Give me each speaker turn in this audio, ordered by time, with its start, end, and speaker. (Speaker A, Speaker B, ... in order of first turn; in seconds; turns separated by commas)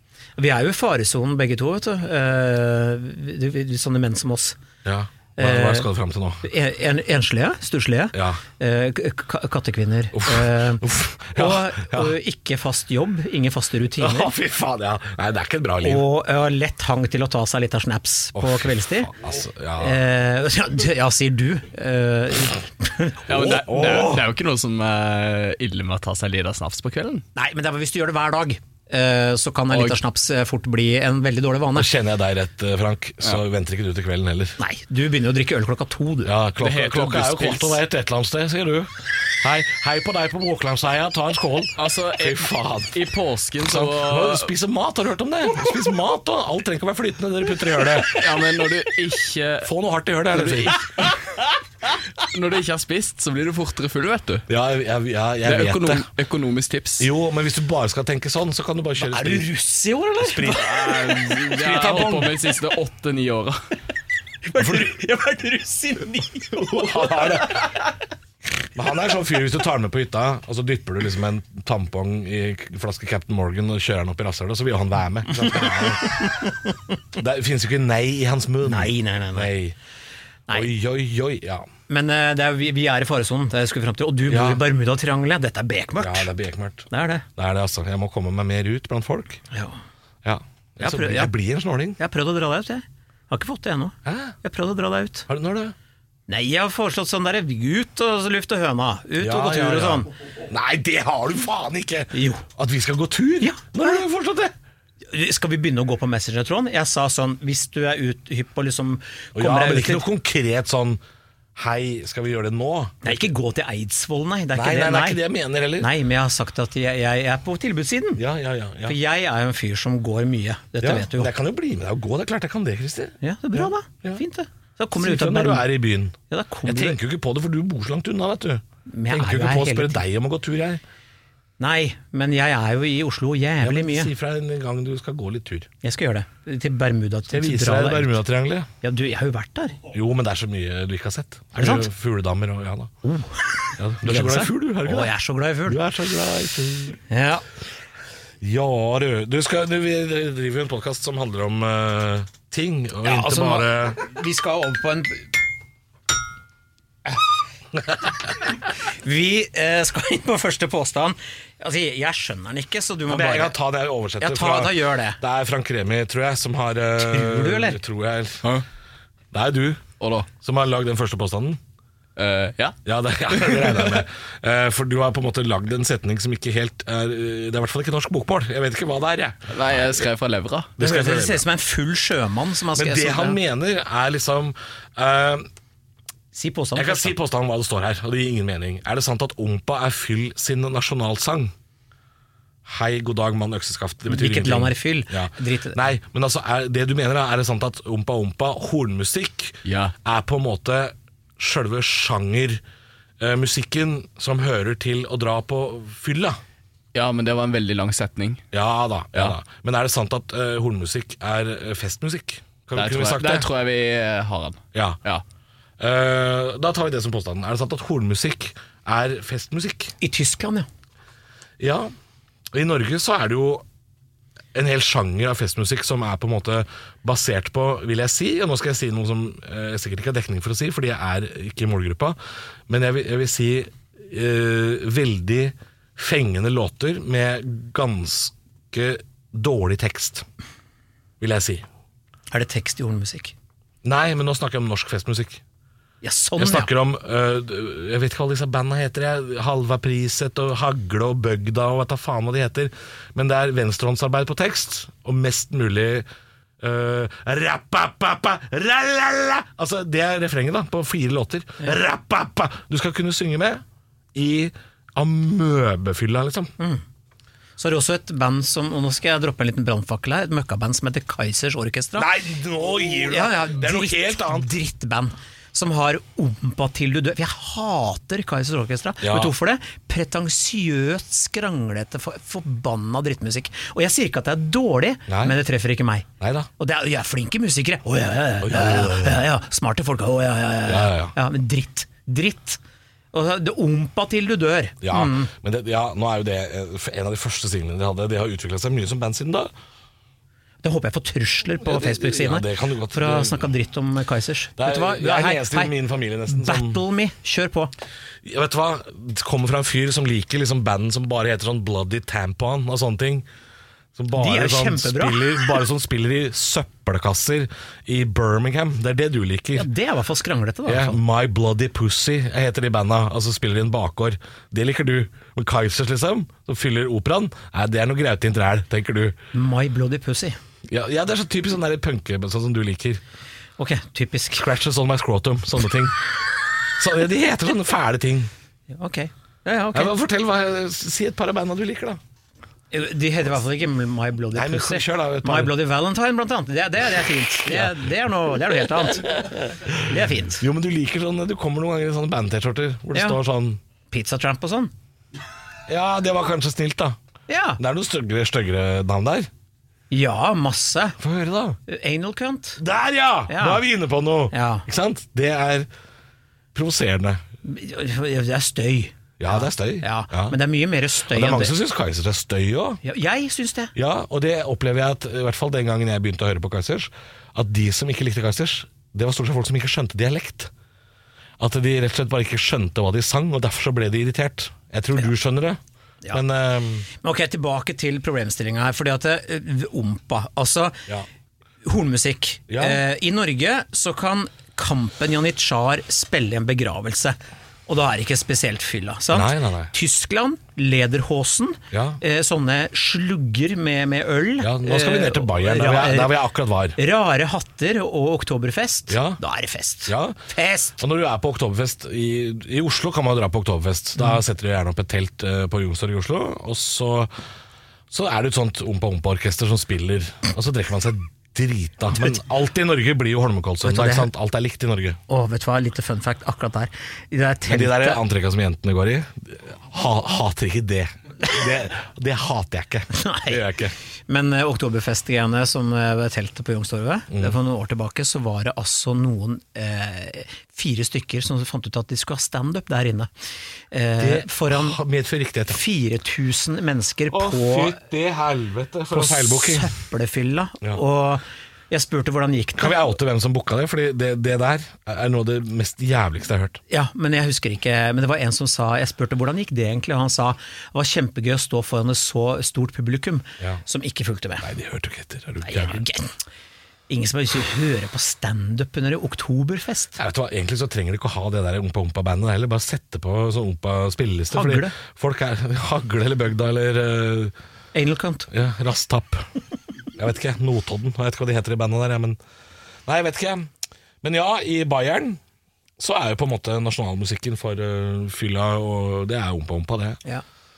Speaker A: 0.4-4.6, Speaker B: 4.8-6.5, Speaker A: 5.4-5.9, Speaker A: 6.4-14.3, Speaker B: 8.1-8.4, Speaker B: 10.2-12.2, Speaker B: 14.0-16.1, Speaker A: 15.8-19.1, Speaker B: 18.4-20.0, Speaker A: 19.8-23.2, Speaker C: 23.3-27.2, Speaker B: 23.3-24.3, Speaker A: 27.4-31.9, Speaker C: 29.7-30.0, Speaker B: 31.8-34.6, Speaker A: 34.6-36.3, Speaker B: 36.2-43.0, Speaker C: 36.6-37.8, Speaker C: 41.8-44.5, Speaker B: 43.6-48.4, Speaker C: 48.0-49.7, Speaker B: 49.6-50.8, Speaker C: 50.3-51.4, Speaker C: 52.2-54.5, Speaker B: 54.5-56.1, Speaker C: 55.4-57.1, Speaker B: 57.0-59.5, Speaker A: 59.0-60.6, Speaker B: 60.2-62.4, Speaker C: 60.5-63.6, Speaker A: 64.5-67.8, Speaker B: 64.6-65.0, Speaker B: 66.7-67.7, Speaker B: 68.8-76.2, Speaker A: 75.4-76.5, Speaker B: 77.2-79.8, Speaker A: 78.6-79.5, Speaker B: 80.5-81.7, Speaker A: 81.9-86.3, Speaker B: 84.3-84.6, Speaker B: 86.0-89.4, Speaker A: 86.9-87.2, Speaker A: 89.5-89.8, Speaker B: 90.2-92.0, Speaker A: 90.8-91.3, Speaker A: 92.0-95.3, Speaker B: 94.0-94.4, Speaker B: 95.3-95.8, Speaker A: 96.3-100.1, Speaker B: 99.2-104.5, Speaker A: 102.1-102.5, Speaker A: 103.4-104.0, Speaker A: 105.1-110.1, Speaker B: 109.3-111.0, Speaker B: 111.5-113.3, Speaker A: 113.0-115.2, Speaker B: 114.5-115.9, Speaker A: 115.8-118.2, Speaker B: 118.2-119.0, Speaker A: 118.8-121.3, Speaker B: 120.8-124.2, Speaker A: 123.2-125.7, Speaker B: 125.0-130.8, Speaker A: 126.3-127.0, Speaker A: 128.9-130.0, Speaker A: 131.6-134.1, Speaker B: 133.6-135.7, Speaker A: 135.8-138.2, Speaker B: 137.3-138.7, Speaker A: 138.8-139.8, Speaker B: 139.9-142.9, Speaker A: 141.6-141.9, Speaker A: 143.0-145.8, Speaker B: 143.8-145.1, Speaker B: 145.7-147.0, Speaker A: 147.1-147.4, Speaker B: 148.4-154.1, Speaker A: 153.0-155.3, Speaker A: 158.6-163.5, Speaker B: 163.1-168.6, Speaker A: 164.2-165.2, Speaker A: 167.0-167.8, Speaker B: 169.3-171.6, Speaker C: 170.0-170.3, Speaker C: 172.2-172.8, Speaker B: 172.8-179.6, Speaker C: 173.3-174.0, Speaker C: 179.5-180.7, Speaker B: 180.8-181.4, Speaker A: 180.8-183.4, Speaker B: 182.8-185.5, Speaker A: 186.3-187.2, Speaker B: 186.8-191.5, Speaker B: 192.7-202.6, Speaker A: 194.1-195.8, Speaker C: 199.7-199.9, Speaker B: 203.2-206.4, Speaker C: 206.9-208.4, Speaker B: 208.5-213.5, Speaker C: 212.8-215.2, Speaker B: 214.7-215.0, Speaker B: 215.8-219.9, Speaker A: 220.0-220.7, Speaker B: 221.6-221.9, Speaker B: 222.5-223.7, Speaker B: 224.5-232.2, Speaker B: 232.7-240.3, Speaker B: 241.2-241.7, Speaker A: 242.3-243.3, Speaker B: 243.8-245.4, Speaker A: 246.0-246.7, Speaker B: 246.4-256.1, Speaker B: 256.6-263.6, Speaker B: 264.1-266.5, Speaker A: 267.6-272.1, Speaker B: 272.0-274.5, Speaker A: 273.1-286.1, Speaker B: 279.0-279.3, Speaker B: 285.1-285.4, Speaker B: 286.2-286.5, Speaker A: 286.6-292.6, Speaker B: 288.4-289.2, Speaker B: 290.7-291.1, Speaker A: 293.1-295.3, Speaker B: 294.8-299.5, Speaker A: 300.6-305.7, Speaker B: 301.6-303.5, Speaker B: 304.6-306.8, Speaker A: 306.3-307.7, Speaker B: 308.2-313.3, Speaker B: 313.9-319.7, Speaker A: 314.1-315.4, Speaker A: 319.6-321.0, Speaker B: 320.7-329.2, Speaker A: 329.3-330.4, Speaker B: 330.7-333.0, Speaker A: 333.6-334.5, Speaker B: 334.3-336.0, Speaker B: 336.8-338.3, Speaker A: 338.7-339.9, Speaker B: 339.7-342.0, Speaker A: 342.7-349.2, Speaker B: 344.3-345.6, Speaker B: 347.5-347.8, Speaker B: 348.8-353.6, Speaker A: 349.8-350.4, Speaker A: 353.9-354.7, Speaker B: 355.7-357.0, Speaker A: 357.3-357.6, Speaker B: 357.6-359.3, Speaker A: 359.9-361.0, Speaker B: 361.0-361.6, Speaker A: 361.7-362.6, Speaker B: 362.6-365.7, Speaker A: 363.3-363.6, Speaker A: 364.3-364.7, Speaker B: 366.5-367.2, Speaker A: 367.4-371.6, Speaker B: 369.2-370.4, Speaker B: 371.1-372.8, Speaker A: 372.8-373.7, Speaker B: 373.8-380.5, Speaker B: 381.4-385.6, Speaker B: 386.1-386.9, Speaker A: 386.9-390.8, Speaker A: 391.6-406.2, Speaker B: 392.5-392.8, Speaker B: 399.1-399.7, Speaker B: 401.7-402.0, Speaker B: 404.4-406.8, Speaker A: 406.8-410.8, Speaker B: 408.9-409.2, Speaker B: 409.9-410.2, Speaker B: 410.8-417.1, Speaker B: 417.9-425.0, Speaker A: 423.6-424.1, Speaker A: 425.1-428.0, Speaker B: 427.5-433.8, Speaker A: 432.9-433.4, Speaker A: 434.1-443.1, Speaker B: 437.1-437.4, Speaker A: 443.7-444.8, Speaker B: 444.0-445.6, Speaker A: 445.5-447.8, Speaker B: 447.1-449.7, Speaker A: 448.9-452.8, Speaker B: 452.6-456.6, Speaker A: 456.7-464.5, Speaker B: 464.4-465.8, Speaker A: 465.4-466.1, Speaker A: 466.9-470.0, Speaker B: 470.0-477.3, Speaker A: 474.3-474.8, Speaker A: 477.7-478.3, Speaker B: 478.3-479.3, Speaker B: 480.0-482.2, Speaker B: 482.9-483.5, Speaker B: 484.0-485.2, Speaker B: 485.8-490.0